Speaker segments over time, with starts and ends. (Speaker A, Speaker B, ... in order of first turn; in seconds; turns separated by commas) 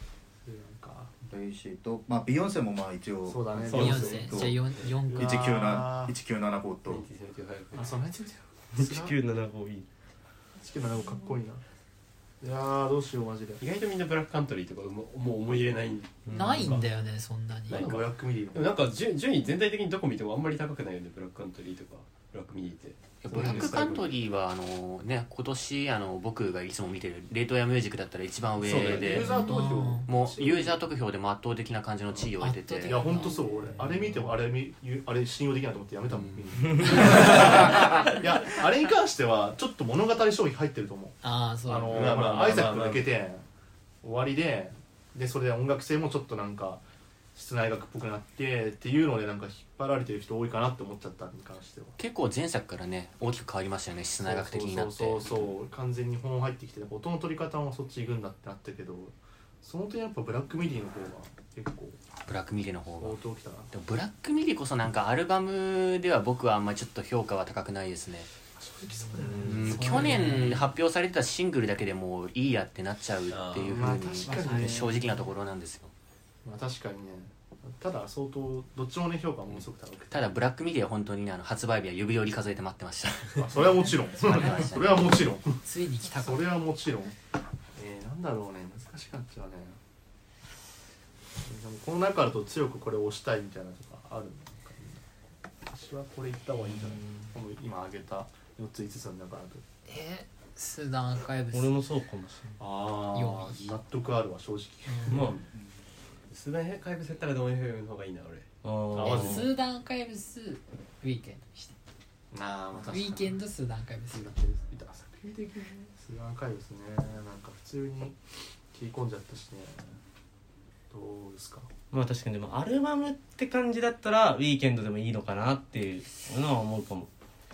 Speaker A: 0.4-1.1, Speaker B: 1.3-4.6, Speaker A: 3.3-4.5, Speaker C: 3.7-5.0, Speaker D: 3.7-5.6, Speaker A: 5.1-6.1, Speaker B: 5.1-7.0, Speaker C: 6.9-8.0, Speaker A: 7.7-9.2, Speaker E: 8.7-9.9, Speaker A: 10.6-11.6, Speaker A: 12.4-13.6, Speaker C: 13.6-16.9, Speaker D: 16.3-17.9, Speaker A: 17.7-18.8, Speaker C: 17.7-24.1, Speaker F: 23.2-29.4, Speaker A: 23.3-23.9, Speaker C: 28.6-29.3, Speaker A: 28.7-30.9, Speaker D: 29.3-30.1, Speaker F: 30.1-33.0, Speaker D: 32.4-33.4, Speaker A: 32.8-43.4, Speaker D: 41.2-42.2, Speaker C: 41.9-43.1, Speaker A: 44.0-46.8, Speaker A: 47.3-51.9, Speaker F: 52.0-55.4, Speaker A: 54.2-62.0, Speaker F: 62.2-68.3, Speaker A: 63.0-63.7, Speaker A: 68.6-70.4, Speaker E: 69.2-69.7, Speaker D: 69.4-70.7, Speaker F: 69.4-75.9, Speaker C: 73.3-73.8, Speaker A: 73.6-75.2, Speaker D: 74.4-74.7, Speaker A: 76.4-80.3, Speaker F: 80.1-83.6, Speaker A: 83.4-85.6, Speaker F: 84.2-85.3, Speaker D: 85.6-86.6, Speaker A: 86.1-87.2, Speaker A: 87.8-89.8, Speaker A: 91.4-95.0, Speaker A: 95.7-99.6, Speaker D: 99.9-101.8, Speaker E: 101.5-102.6, Speaker A: 102.6-105.4, Speaker D: 103.1-103.7, Speaker D: 104.8-105.3, Speaker E: 105.1-105.3, Speaker C: 106.3-108.5, Speaker E: 108.6-109.5, Speaker A: 108.9-109.5, Speaker D: 109.0-111.7, Speaker A: 112.3-113.4, Speaker D: 112.9-114.3, Speaker A: 114.1-118.2, Speaker A: 118.7-120.0, Speaker A: 120.9-121.7, Speaker E: 121.9-127.1